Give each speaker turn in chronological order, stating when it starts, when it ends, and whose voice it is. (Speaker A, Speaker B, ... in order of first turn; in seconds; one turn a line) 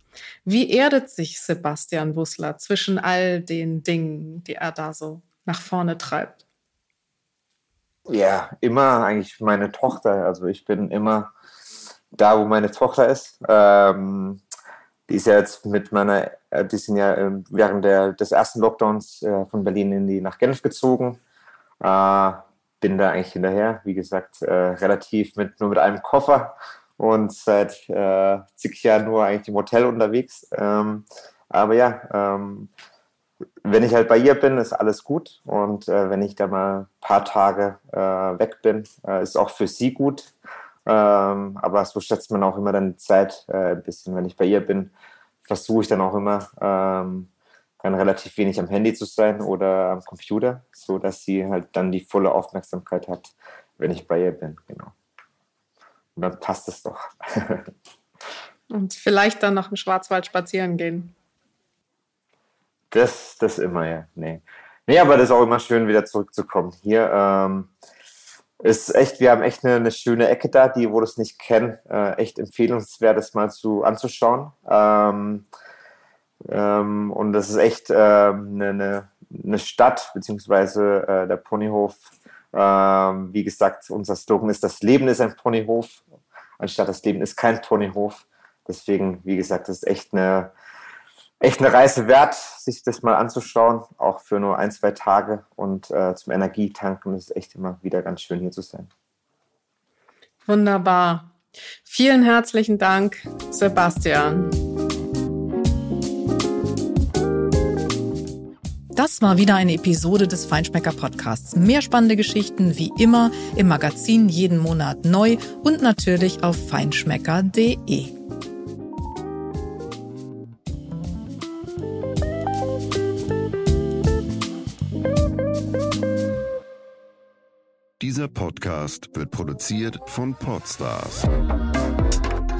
Speaker A: 0.4-6.4
Speaker B: 8.1-11.3
Speaker B: 12.1-14.4
Speaker B: 15.1-21.2
Speaker B: 21.8-32.7
Speaker B: 33.6-40.3
Speaker B: 40.8-44.9
Speaker B: 45.5-54.9
Speaker B: 56.1-57.7
Speaker A: 58.7-61.1
Speaker B: 62.9-67.7
Speaker B: 68.6-75.5
Speaker B: 76.4-86.0
Speaker B: 86.6-90.5
Speaker B: 91.4-98.9
Speaker A: 100.4-104.5
Speaker A: 108.9-118.2
Speaker C: 128.0-131.3